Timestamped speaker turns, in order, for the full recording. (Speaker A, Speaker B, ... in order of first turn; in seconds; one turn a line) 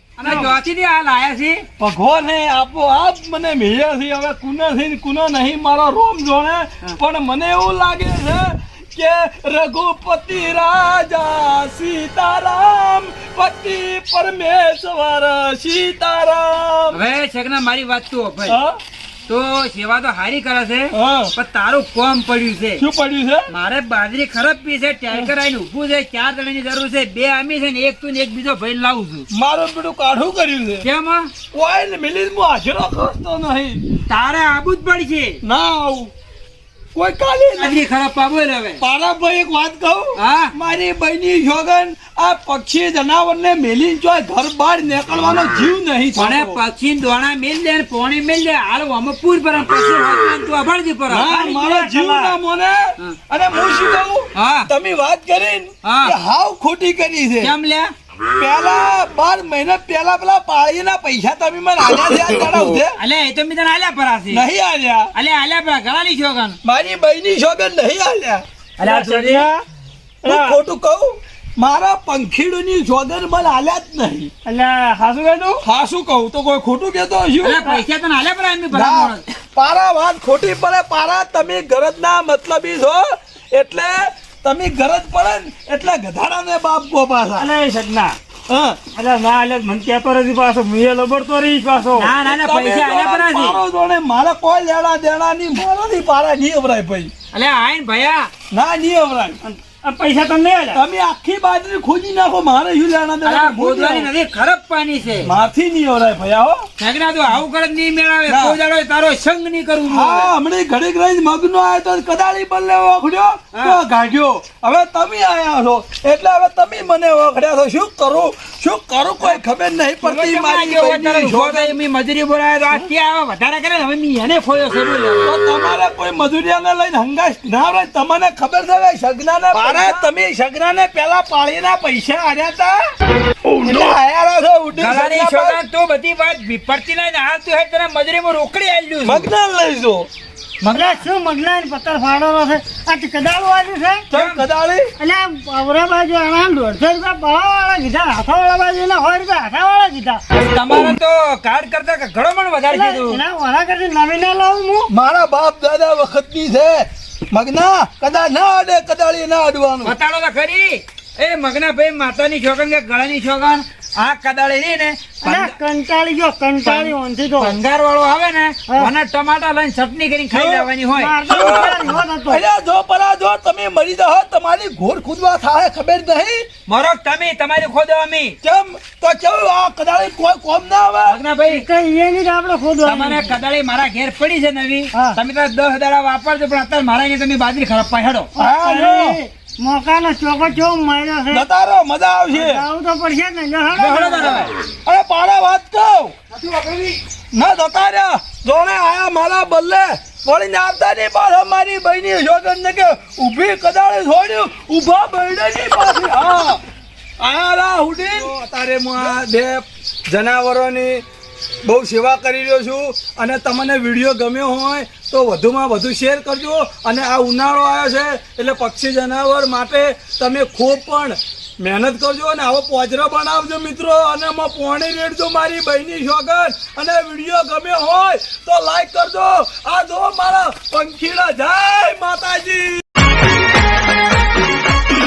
Speaker A: 0.2-1.6
Speaker B: 0.2-0.6
Speaker B: 1.8-17.0
Speaker A: 16.9-18.6
Speaker B: 18.5-18.8
Speaker A: 19.3-22.8
Speaker B: 20.9-21.3
Speaker B: 22.8-23.5
Speaker A: 23.5-29.3
Speaker B: 29.3-30.9
Speaker A: 30.8-31.3
Speaker B: 31.5-33.8
Speaker A: 34.1-35.4
Speaker B: 35.4-36.1
Speaker B: 37.0-37.8
Speaker A: 37.6-38.8
Speaker B: 38.8-46.6
Speaker A: 40.2-40.5
Speaker A: 46.2-51.6
Speaker B: 51.1-57.5
Speaker C: 51.7-52.0
Speaker A: 54.4-54.7
Speaker A: 55.8-56.1
Speaker A: 57.4-57.9
Speaker B: 58.4-63.0
Speaker A: 63.0-64.4
Speaker B: 64.3-65.1
Speaker A: 65.1-66.6
Speaker B: 66.6-68.4
Speaker A: 68.8-69.5
Speaker C: 68.8-69.5
Speaker B: 70.2-74.3
Speaker C: 74.5-75.6
Speaker B: 75.6-77.7
Speaker A: 77.4-79.2
Speaker B: 78.7-87.5
Speaker C: 87.4-88.2
Speaker B: 88.5-88.8
Speaker C: 88.9-92.1
Speaker A: 91.9-93.6
Speaker B: 92.2-97.1
Speaker A: 97.3-98.3
Speaker B: 98.5-99.4
Speaker C: 99.5-100.8
Speaker B: 100.7-104.1
Speaker A: 103.2-105.3
Speaker B: 105.2-106.7
Speaker A: 106.8-110.3
Speaker B: 108.3-108.6
Speaker B: 109.9-121.8
Speaker A: 120.0-125.4
Speaker B: 125.2-132.8
Speaker A: 129.5-130.1
Speaker B: 133.5-135.6
Speaker A: 134.8-139.3
Speaker B: 139.0-140.1
Speaker A: 140.6-141.0
Speaker D: 140.7-144.1
Speaker B: 144.1-144.9
Speaker A: 144.1-144.4
Speaker D: 145.0-150.2
Speaker A: 150.3-153.2
Speaker D: 152.7-154.9
Speaker B: 154.9-159.9
Speaker A: 159.8-165.6
Speaker D: 165.2-167.6
Speaker A: 166.6-171.3
Speaker B: 170.3-170.7
Speaker D: 171.0-172.4
Speaker B: 171.3-176.5
Speaker A: 176.7-178.4
Speaker B: 178.4-181.2
Speaker A: 181.1-181.7
Speaker D: 181.5-183.4
Speaker A: 182.8-188.3
Speaker D: 188.4-191.5
Speaker B: 188.4-189.2
Speaker B: 191.3-192.6
Speaker D: 192.3-194.5
Speaker A: 193.8-194.5
Speaker B: 194.8-196.2
Speaker A: 196.5-196.9
Speaker B: 197.3-206.6
Speaker B: 207.2-211.0
Speaker B: 211.7-232.8